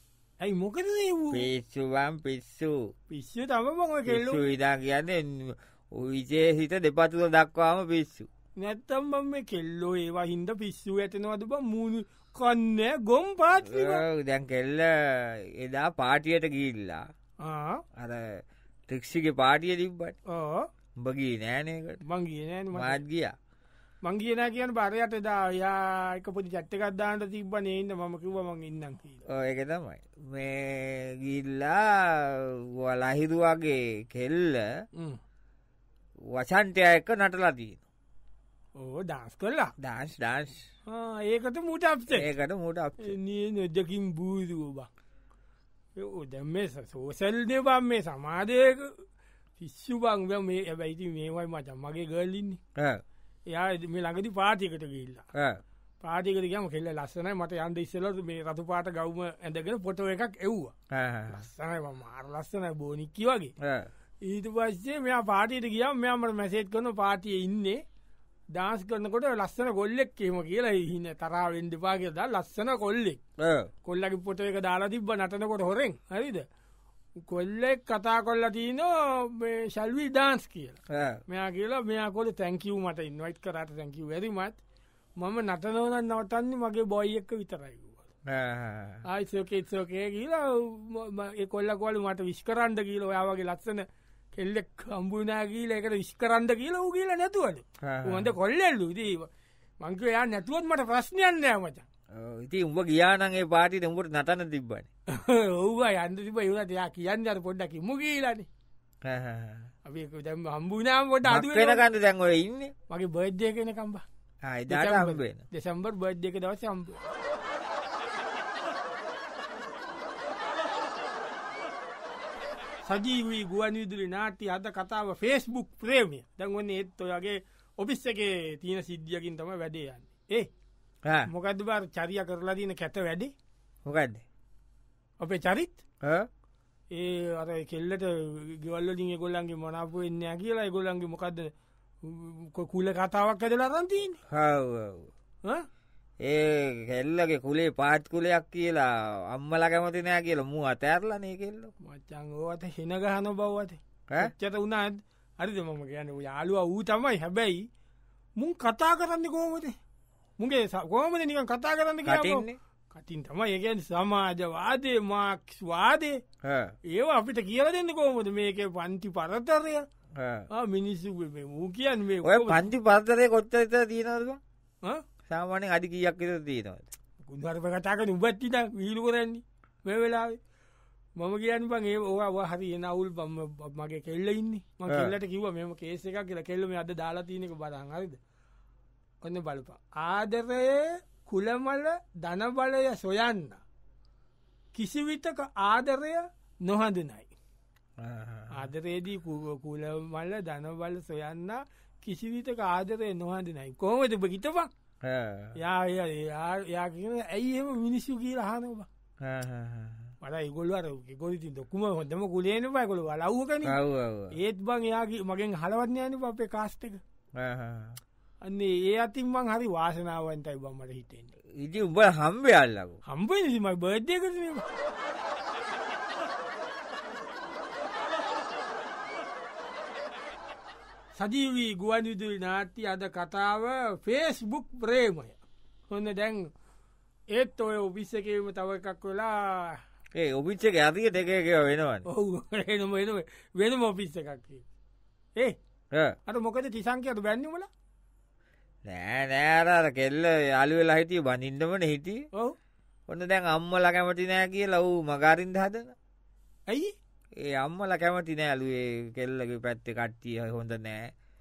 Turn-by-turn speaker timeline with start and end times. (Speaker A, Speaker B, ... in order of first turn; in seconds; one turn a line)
Speaker A: 0.4-1.5
Speaker B: 1.3-2.8
Speaker A: 3.1-4.5
Speaker B: 4.1-8.3
Speaker A: 8.6-14.0
Speaker B: 13.6-17.0
Speaker A: 17.4-17.8
Speaker B: 17.9-20.1
Speaker A: 20.3-20.7
Speaker B: 21.0-22.0
Speaker A: 22.0-23.0
Speaker B: 22.7-23.3
Speaker A: 24.0-29.2
Speaker B: 29.3-34.7
Speaker B: 36.2-37.8
Speaker A: 38.8-39.7
Speaker B: 39.8-40.7
Speaker A: 40.9-42.3
Speaker B: 42.1-43.1
Speaker A: 43.0-44.9
Speaker A: 46.0-49.0
Speaker A: 49.6-52.6
Speaker B: 52.8-53.0
Speaker A: 53.5-55.3
Speaker B: 55.3-55.6
Speaker A: 56.0-60.7
Speaker B: 60.9-61.4
Speaker A: 61.3-63.5
Speaker B: 63.6-63.9
Speaker A: 64.2-67.8
Speaker A: 68.5-73.2
Speaker B: 73.4-73.7
Speaker A: 73.8-76.5
Speaker A: 77.2-84.6
Speaker B: 80.9-81.2
Speaker A: 85.2-88.0
Speaker B: 88.3-89.0
Speaker A: 89.0-93.8
Speaker A: 94.3-99.3
Speaker B: 97.8-98.3
Speaker A: 99.8-101.8
Speaker B: 102.1-104.9
Speaker A: 105.1-108.5
Speaker B: 109.0-109.7
Speaker A: 109.8-111.8
Speaker B: 111.2-112.7
Speaker A: 112.9-114.0
Speaker B: 114.4-115.4
Speaker A: 114.7-117.1
Speaker A: 122.8-130.5
Speaker A: 131.3-133.3
Speaker B: 133.8-134.2
Speaker A: 135.2-135.8
Speaker B: 136.0-136.3
Speaker A: 136.9-141.5
Speaker A: 142.0-144.2
Speaker B: 144.3-145.1
Speaker B: 146.2-151.7
Speaker A: 151.8-157.6
Speaker A: 158.4-159.7
Speaker A: 160.4-166.2
Speaker B: 162.0-162.6
Speaker B: 166.4-166.7
Speaker A: 166.9-169.8
Speaker B: 170.2-170.5
Speaker A: 170.5-172.6
Speaker B: 172.2-174.4
Speaker B: 175.3-176.9
Speaker A: 177.2-180.4
Speaker A: 181.2-188.2
Speaker A: 189.2-193.6
Speaker A: 194.7-197.3
Speaker B: 198.0-198.7
Speaker A: 198.5-204.7
Speaker B: 205.0-205.5
Speaker A: 205.6-208.9
Speaker B: 209.2-210.1
Speaker A: 210.2-213.8
Speaker B: 213.6-214.3
Speaker A: 214.3-217.0
Speaker B: 217.4-218.0
Speaker A: 218.4-221.3
Speaker B: 221.6-223.0
Speaker A: 223.1-224.7
Speaker A: 231.1-235.4
Speaker A: 235.9-236.5
Speaker A: 237.3-239.8
Speaker B: 240.1-242.1
Speaker A: 242.1-244.6
Speaker B: 245.9-246.2
Speaker A: 246.2-247.7
Speaker B: 248.8-252.2
Speaker B: 253.1-255.9
Speaker A: 256.7-256.9
Speaker B: 257.4-261.1